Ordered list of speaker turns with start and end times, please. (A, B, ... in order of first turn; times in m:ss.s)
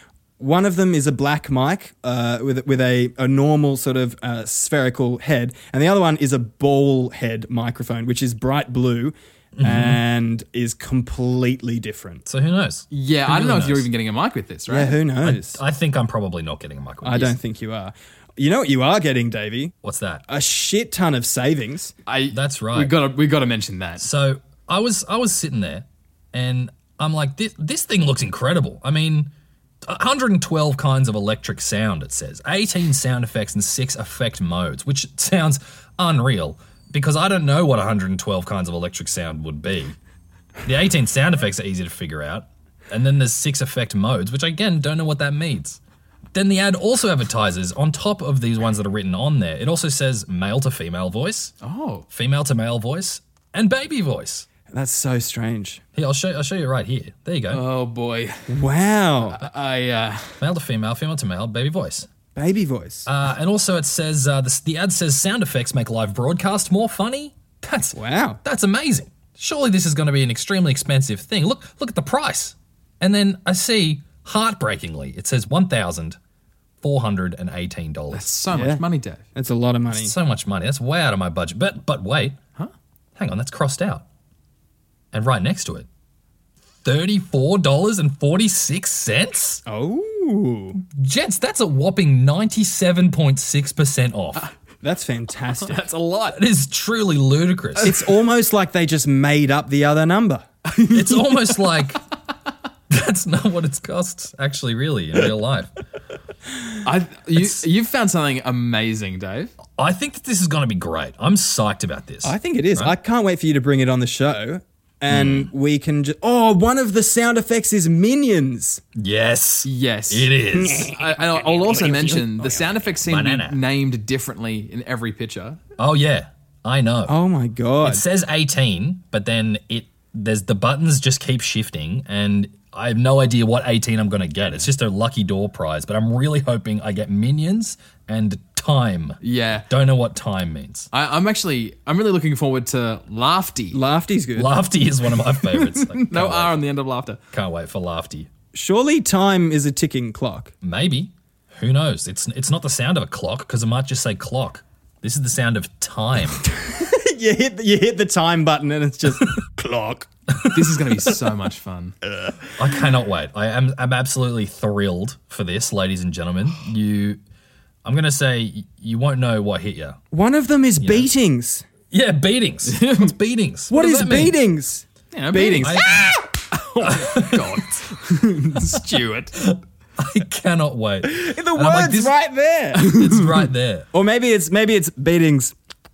0:00.4-0:12.2 A
0:09.6-0:10.0 B
0:12.3-0:13.9 B
0:12.9-0:15.0 C
0:14.7-0:15.6 A
0:15.2-0:17.4 B
0:17.0-0:19.7 A
0:19.8-0:20.2 B
0:20.3-0:21.9 A
0:22.1-0:24.0 C
0:22.3-0:23.0 B
0:24.0-0:29.3 B
0:29.8-0:40.0 B
0:40.6-0:45.8 B
0:46.3-0:51.5 B
0:51.6-0:52.1 C
0:52.1-0:54.5 B
0:54.7-0:55.8 A
0:56.0-0:57.6 B
0:57.5-0:58.5 C
0:58.5-0:59.4 A
0:59.3-1:00.4 C
1:00.4-1:02.1 B
1:02.4-1:03.1 A
1:03.1-1:16.2 B
1:08.0-1:08.4 A
1:16.8-1:18.3 B
1:18.1-1:19.2 C
1:18.5-1:18.8 A
1:19.4-1:20.1 A
1:19.9-1:22.4 B
1:23.2-1:24.0 B
1:25.1-1:25.9 B
1:26.8-1:29.6 B
1:29.7-1:30.8 A
1:30.8-1:34.5 B
1:34.8-1:35.8 A
1:35.6-1:36.4 C
1:36.3-1:38.0 B
1:37.8-1:40.5 A
1:40.7-1:41.8 C
1:40.9-1:42.0 B
1:42.9-1:45.7 B
1:46.8-1:49.5 C
1:47.3-1:47.6 B
1:49.8-1:52.9 B
1:52.2-1:58.8 A
1:55.1-1:55.5 B
1:59.0-2:01.0 B
1:59.6-2:05.6 C
2:00.5-2:02.7 A
2:03.0-2:03.6 B
2:05.8-2:07.2 B
2:07.1-2:08.0 A
2:07.8-2:20.9 B
2:19.2-2:19.7 C
2:20.9-2:23.8 C
2:23.7-2:24.6 A
2:24.4-2:26.6 B
2:25.2-2:27.2 C
2:27.3-2:28.3 B
2:28.5-2:30.5 A
2:30.6-2:36.4 B
2:36.5-2:40.6 A
2:40.5-2:42.0 C
2:42.6-2:47.2 B
2:47.8-2:50.0 B
2:50.1-2:51.7 A
2:50.8-2:51.1 B
2:51.9-2:54.4 B
2:52.7-2:53.1 C
2:53.7-2:56.4 A
2:55.1-2:56.0 C
2:55.6-2:56.0 B
2:56.5-2:59.4 C
2:56.8-2:57.6 B
2:59.4-3:02.1 B
3:01.0-3:02.9 A
3:02.8-3:03.5 C
3:02.8-3:03.9 B
3:03.9-3:05.5 A